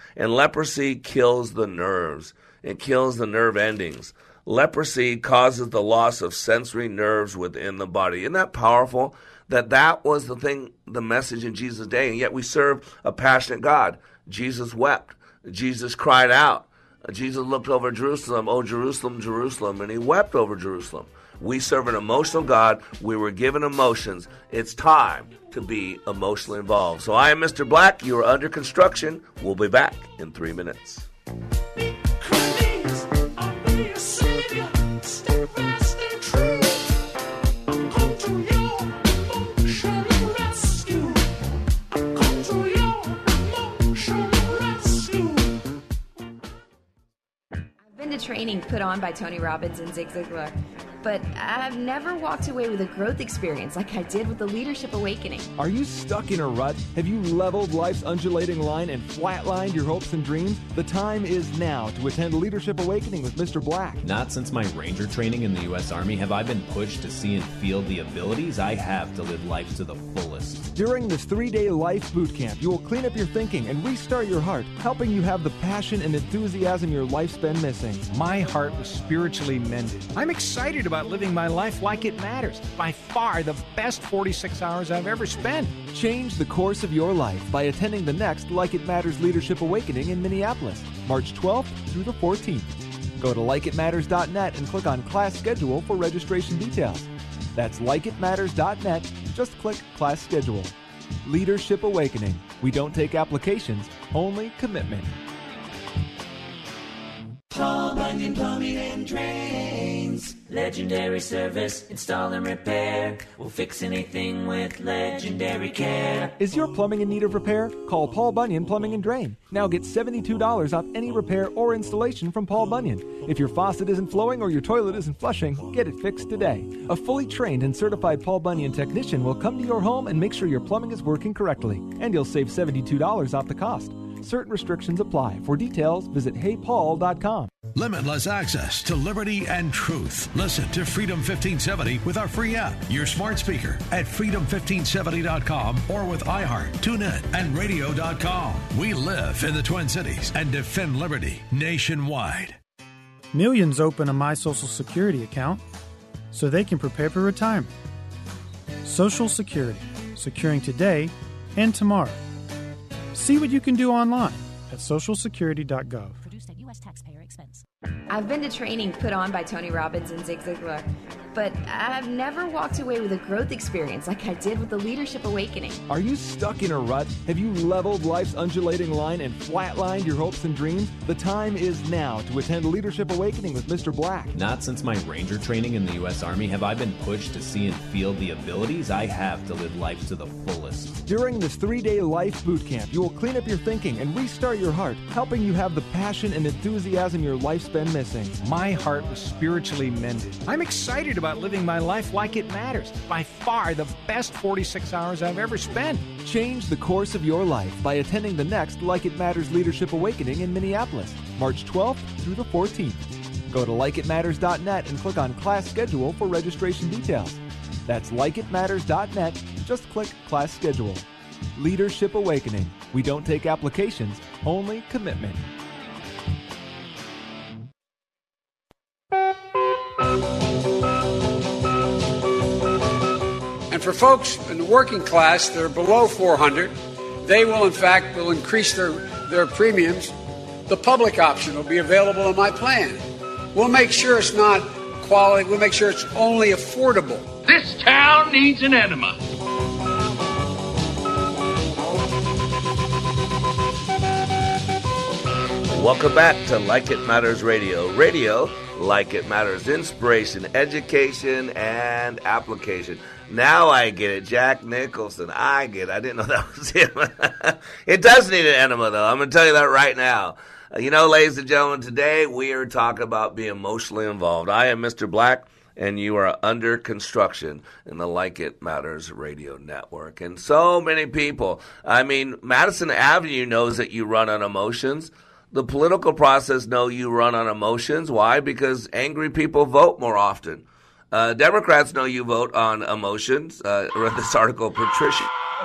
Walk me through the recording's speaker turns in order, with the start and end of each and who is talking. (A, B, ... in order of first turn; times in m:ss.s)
0:00.2-0:31.1 A
0:32.3-0:34.7 B
0:35.8-0:36.6 B
0:39.7-0:41.2 B
0:42.3-0:42.9 B
0:43.9-0:45.4 B
0:47.9-0:55.5 C
0:55.6-1:04.0 D
1:04.0-1:10.6 E
1:10.7-1:18.1 D
1:18.1-1:25.8 F
1:25.9-1:40.7 D
1:41.2-1:45.1 D
1:55.2-1:55.6 B
1:56.4-2:17.5 D
2:17.7-2:32.6 G
2:33.3-2:35.6 H
2:36.3-2:37.7 H
2:38.8-2:42.2 H
2:43.1-2:47.6 H
2:48.1-2:55.8 C
2:55.9-3:04.3 D
3:04.3-3:11.0 E
3:11.0-3:18.4 D
3:18.4-3:26.1 F
3:26.2-3:45.4 D
3:53.7-4:00.1 I
4:00.7-4:03.0 I
4:03.5-4:07.4 I
4:15.7-4:55.3 A